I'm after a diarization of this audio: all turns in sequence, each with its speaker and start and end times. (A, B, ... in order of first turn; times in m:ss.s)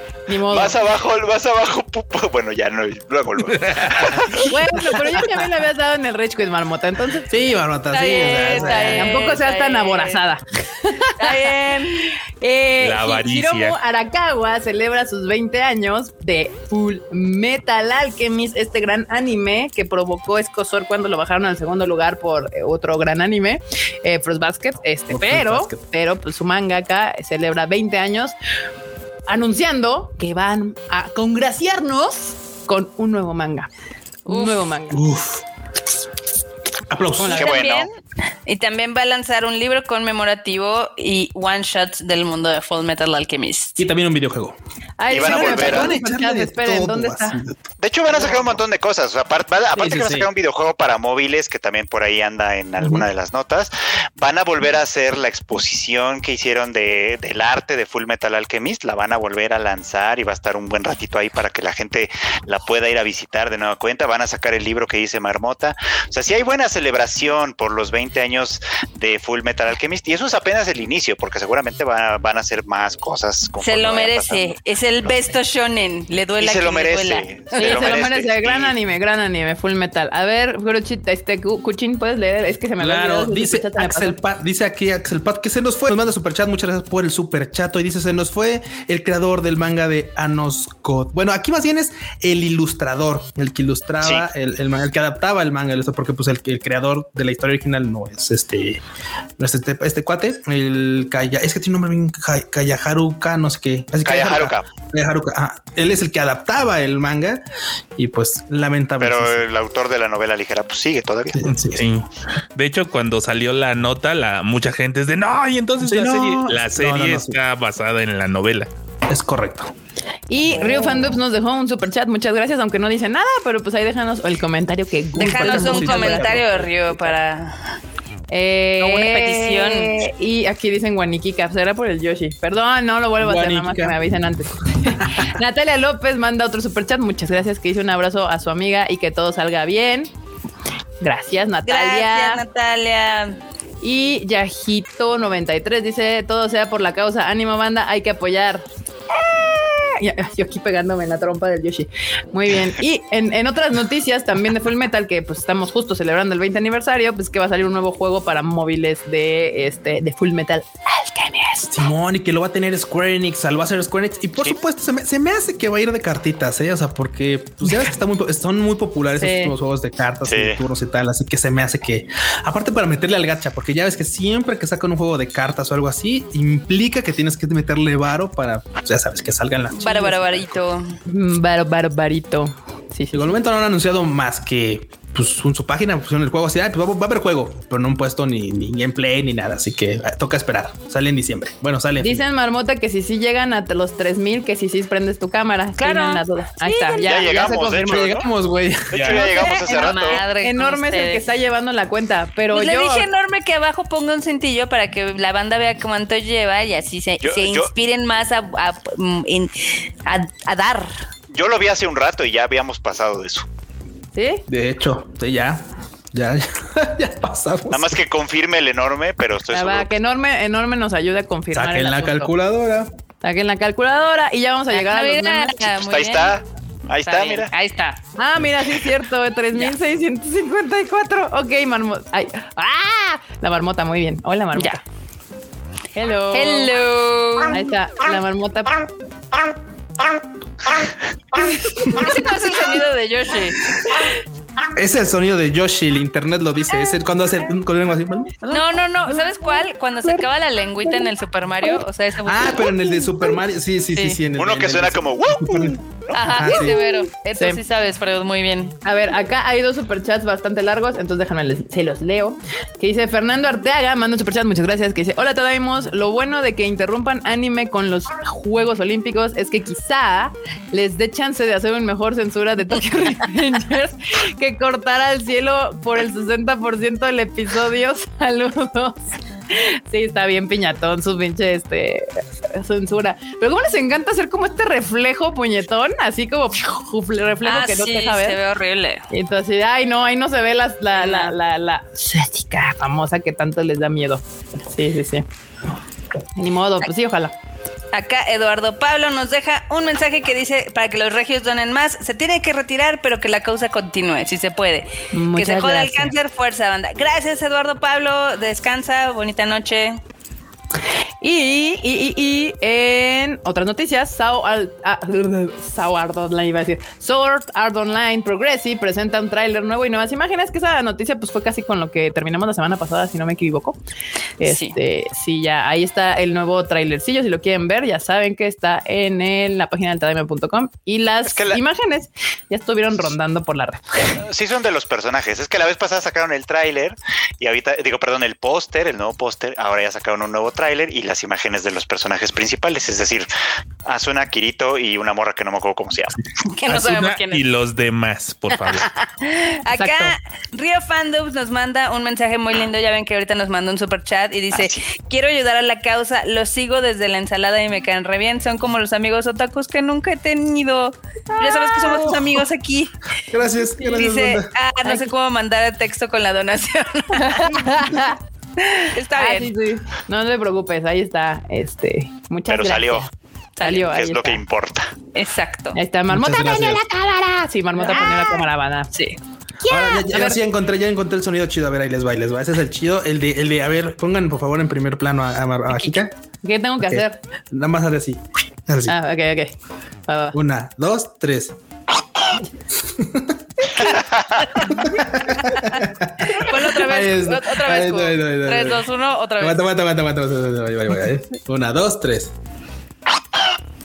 0:00.3-0:00.8 A
0:00.5-0:04.5 B
0:03.6-0:04.4 C
0:04.4-0:11.5 A
0:07.3-0:09.3 D
0:07.9-0:10.2 E
0:11.2-0:12.1 E
0:12.4-0:28.4 A
0:12.8-0:13.8 C
0:25.1-0:25.8 D
0:29.3-0:33.7 A
0:34.3-0:35.0 A
0:34.3-0:34.7 E
0:34.9-0:35.4 D
0:36.9-0:37.5 D
0:37.2-0:37.6 A
0:37.2-0:37.9 E
0:37.3-0:37.9 B
0:38.5-0:43.8 E
0:43.8-0:44.6 D
0:45.0-0:47.4 A
0:45.1-0:47.6 D
0:45.1-0:45.9 B
0:47.8-1:15.2 B
0:49.8-0:50.3 D
0:52.8-0:53.1 D
1:13.6-1:17.9 E
1:16.4-1:18.8 B
1:17.6-1:24.2 A
1:22.8-1:38.8 D
1:39.4-1:47.4 D
1:44.0-1:44.7 B
1:48.0-1:49.4 D
1:49.0-1:51.4 B
1:51.3-1:51.9 D
1:51.5-1:58.7 C
1:55.8-1:57.4 D
1:59.1-1:59.7 D
2:00.3-2:06.4 A
2:00.6-2:01.1 D
2:05.1-2:07.1 D
2:05.2-2:07.6 E
2:08.3-2:20.1 A
2:08.8-2:10.0 E
2:13.2-2:14.0 D
2:21.0-2:22.4 A
2:21.6-2:23.4 E
2:23.8-2:41.7 A
2:41.7-3:00.6 D
2:49.2-2:49.5 A
2:50.2-2:50.6 B
2:59.7-3:01.0 E
3:01.1-3:03.4 A
3:03.1-3:12.2 D
3:12.0-3:18.2 A
3:15.8-3:17.4 E
3:17.0-3:18.2 B
3:17.8-3:19.2 D
3:18.9-3:20.2 B
3:18.9-3:19.2 C
3:19.1-3:21.2 E
3:19.2-3:23.1 A
3:22.5-3:30.9 E
3:27.2-3:27.7 B
3:31.3-3:33.5 B
3:34.2-3:34.4 A
3:34.5-3:38.0 D
3:37.7-3:39.9 B
3:39.5-3:42.3 A
3:41.5-3:42.9 D
3:43.2-3:45.6 A
3:44.7-3:46.4 E
3:45.8-3:47.5 B
3:47.0-3:48.0 E
3:48.2-3:54.8 A
3:56.0-3:56.7 A
3:56.3-3:57.6 E
3:57.5-3:58.9 A
4:01.8-4:04.0 E
4:04.7-4:08.6 D
4:08.5-4:12.8 E
4:12.2-4:16.8 D
4:14.4-4:16.2 B
4:16.1-4:18.8 E
4:17.4-4:17.6 A
4:18.8-4:48.4 A
4:47.4-4:49.0 E
4:49.1-4:55.2 A
4:51.0-4:51.3 E
4:56.4-4:57.3 A
4:57.9-5:10.0 E
5:05.1-5:06.1 A
5:11.2-5:23.8 A
5:24.4-5:34.2 A
5:24.4-5:24.8 E
5:31.3-5:31.6 B
5:34.1-5:43.3 B
5:43.8-5:46.2 B
5:46.5-5:47.4 E
5:46.7-5:48.9 C
5:49.2-6:02.9 E
5:49.7-5:50.2 A
5:54.5-5:54.8 B
6:01.3-6:02.2 A
6:03.3-6:04.5 D
6:03.8-6:07.8 E
6:04.8-6:05.1 A
6:07.1-6:08.2 A
6:08.7-6:13.1 A
6:08.9-6:09.5 E
6:12.5-6:13.1 B
6:13.6-6:13.9 E
6:13.6-6:14.4 A
6:13.8-6:14.9 B
6:15.2-6:15.8 E
6:15.7-6:18.9 A
6:16.1-6:16.8 D
6:17.8-6:19.2 E
6:19.6-6:20.4 A
6:19.7-6:26.1 D
6:25.7-6:26.0 E
6:26.4-6:27.2 A
6:26.8-6:29.0 D
6:28.9-6:29.5 A
6:30.1-6:30.4 A
6:30.3-6:31.6 D
6:32.8-6:33.4 D
6:33.8-6:34.5 B
6:34.6-6:38.8 D
6:36.3-6:39.6 E
6:39.4-6:42.3 D